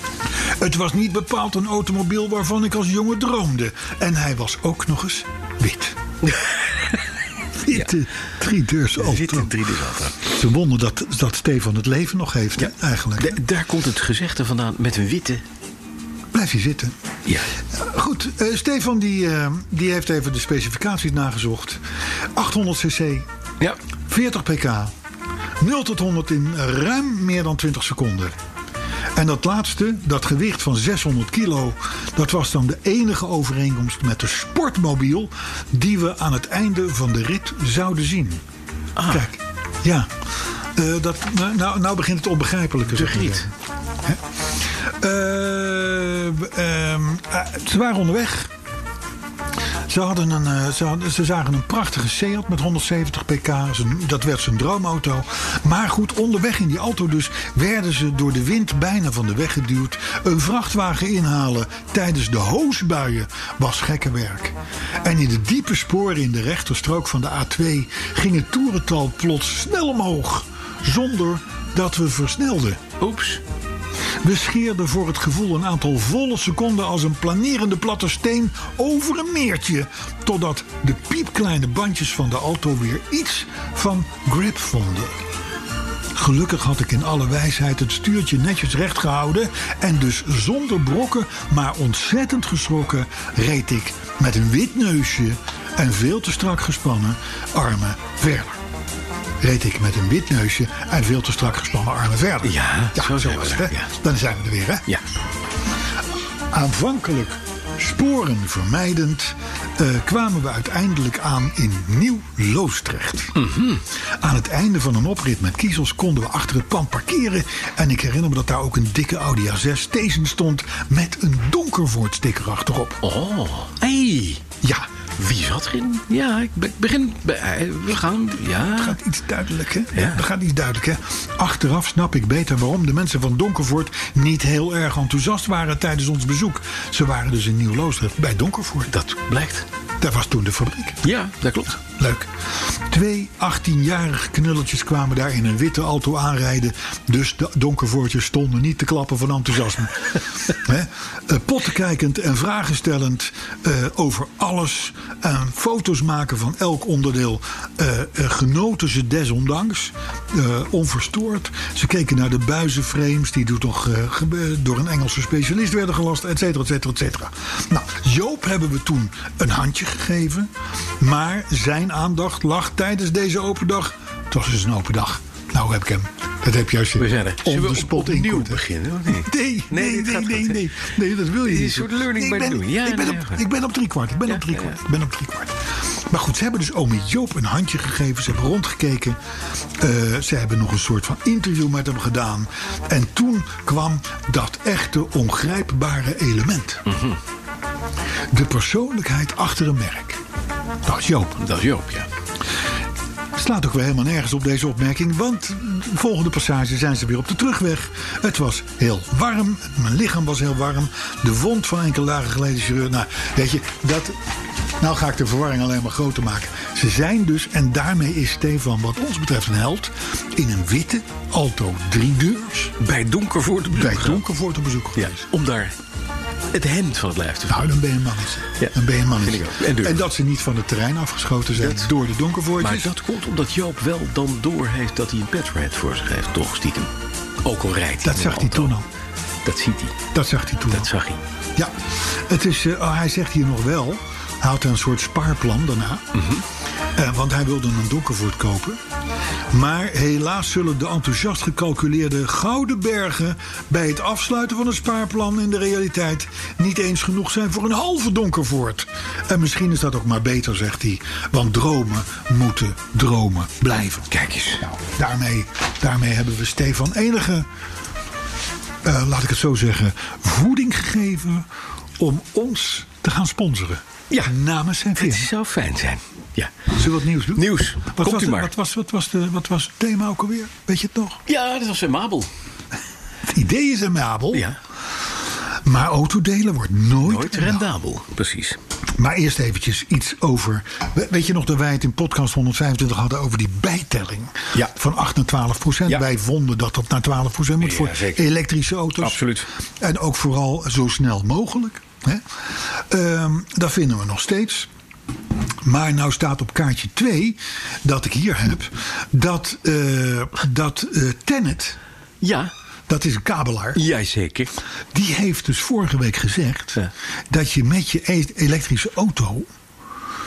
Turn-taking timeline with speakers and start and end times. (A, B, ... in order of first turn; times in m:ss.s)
0:00.4-0:06.0 A
0:06.2-0:07.0 B
0:07.6-0:09.5 A
0:09.0-0:10.3 B
0:10.2-0:13.4 A
0:12.6-0:15.4 B
0:16.3-0:17.0 A
0:17.7-0:21.8 A
0:22.3-0:23.3 A
0:24.1-0:24.9 A
0:25.6-0:28.4 A
0:29.1-0:38.4 A
0:39.0-0:39.3 B
0:39.1-0:40.2 A
0:40.7-0:43.5 A
0:42.9-0:43.5 B
0:44.9-0:48.5 A
0:49.9-1:12.8 A
1:13.0-1:13.4 B
1:14.2-1:25.1 A
1:26.1-1:38.6 A
1:39.4-1:44.9 A
1:42.4-1:43.9 B
1:46.5-1:53.4 A
1:53.4-1:53.8 B
1:54.2-2:03.0 A
2:03.0-2:04.4 B
2:04.6-2:04.9 A
2:05.2-2:09.0 B
2:08.7-2:18.9 A
2:09.9-2:10.2 B
2:18.9-2:19.6 B
2:20.0-2:21.0 A
2:21.0-2:21.8 B
2:21.8-3:09.2 A
2:57.0-3:00.8 B
3:01.4-3:03.4 B
3:04.3-3:04.8 B
3:09.8-3:16.8 A
3:16.9-3:17.2 B
3:18.3-3:20.2 A
3:20.8-3:21.4 A
3:21.4-3:22.1 B
3:23.4-3:34.2 A
3:34.8-3:42.8 A
3:42.8-3:44.2 B
3:43.7-3:45.2 A
3:45.0-3:45.7 B
3:46.5-3:47.8 B
3:47.5-3:52.9 A
3:48.6-3:50.0 B
3:51.6-3:51.9 B
3:52.6-3:58.8 B
3:58.0-3:58.9 A
3:59.4-4:00.0 B
4:00.1-4:00.9 A
4:00.7-4:01.2 B
4:01.6-4:06.1 A
4:06.1-4:06.4 B
4:06.9-4:08.8 A
4:09.5-4:27.5 A
4:24.1-4:24.6 B
4:28.8-4:31.5 A
4:32.0-4:35.3 A
4:35.0-4:36.7 B
4:36.7-4:41.2 A
4:37.3-4:38.5 B
4:41.3-4:42.3 B
4:43.3-4:44.4 A
4:45.6-4:47.6 A
4:47.0-4:48.6 B
4:49.0-4:59.2 A
4:57.6-4:58.2 B
4:59.0-4:59.5 B
4:59.8-5:04.7 A
5:05.6-5:11.8 A
5:12.2-5:12.5 B
5:12.9-5:13.8 A
5:13.7-5:14.5 B
5:14.9-5:19.5 A